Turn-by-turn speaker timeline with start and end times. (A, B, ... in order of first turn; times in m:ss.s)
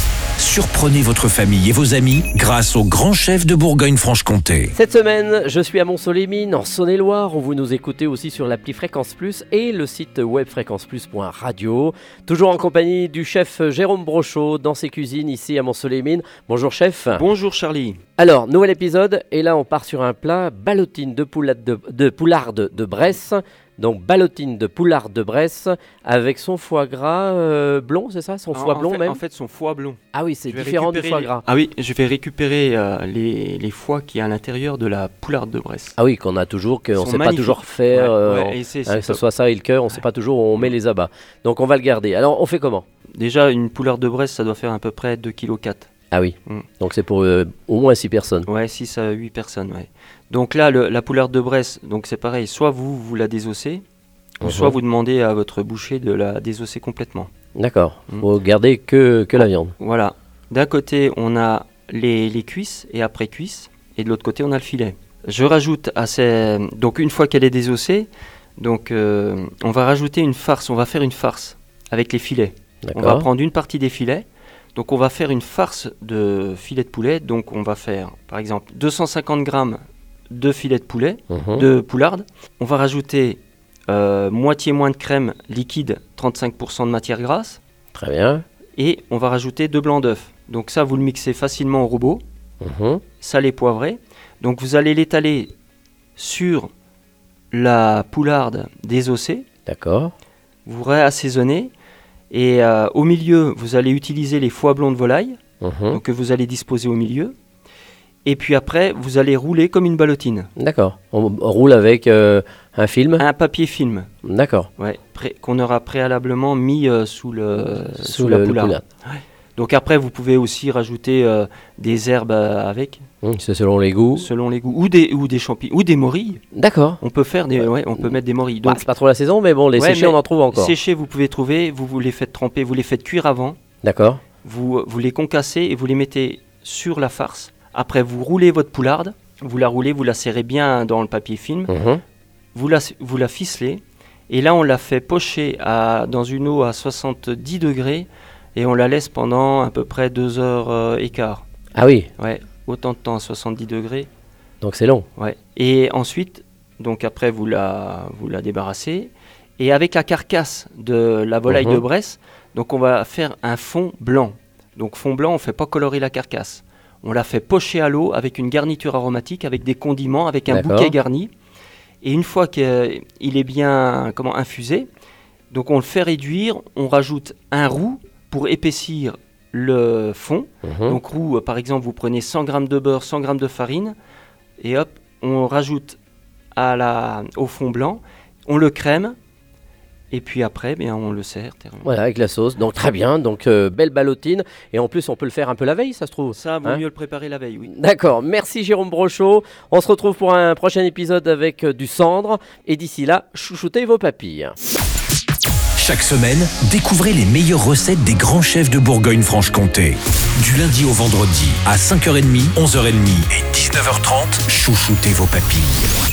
0:00.4-0:04.7 A
0:04.7-0:17.2 B
0:17.1-0:18.0 C
0:18.2-0:29.2 B
0:28.5-0:36.0 C
0:30.1-0:31.4 B
0:36.0-0:42.8 B
0:37.0-0:39.2 C
0:43.2-0:45.9 C
0:46.1-0:48.5 B
0:48.4-0:53.8 C
0:54.4-0:54.8 B
0:54.4-0:57.3 C
0:57.6-0:59.7 B
0:59.8-1:27.6 C
1:12.8-1:13.2 B
1:21.3-1:21.6 B
1:27.9-1:28.4 B
1:28.8-1:32.2 C
1:32.6-1:33.0 B
1:33.2-1:35.5 C
1:36.2-1:36.7 C
1:37.5-1:39.4 C
1:39.6-1:40.1 B
1:40.6-1:41.7 C
1:42.3-1:45.4 C
1:45.6-1:46.0 B
1:45.9-1:47.3 C
1:48.2-1:50.5 C
1:50.6-1:53.2 B
1:53.2-1:54.1 C
1:54.2-1:54.7 B
1:54.8-2:03.0 C
1:57.9-1:58.8 B
2:03.2-2:04.3 B
2:04.1-2:06.4 C
2:06.5-2:07.0 B
2:07.0-2:08.8 C
2:08.6-2:10.7 B
2:09.8-2:13.6 C
2:13.8-2:14.2 B
2:14.4-2:21.7 C
2:21.7-2:22.0 B
2:22.5-2:31.4 C
2:31.7-2:32.1 B
2:32.2-2:34.1 C
2:34.6-2:35.0 B
2:35.2-2:51.3 C
2:41.5-2:41.8 B
2:50.5-2:50.9 B
2:52.0-2:54.9 C
2:55.5-3:03.9 C
3:00.6-3:01.0 B
3:04.6-3:06.0 C
3:06.5-3:09.1 C
3:10.1-3:11.9 C
3:11.8-3:16.8 B
3:16.3-3:17.7 C
3:17.7-3:24.5 B
3:25.8-3:35.9 A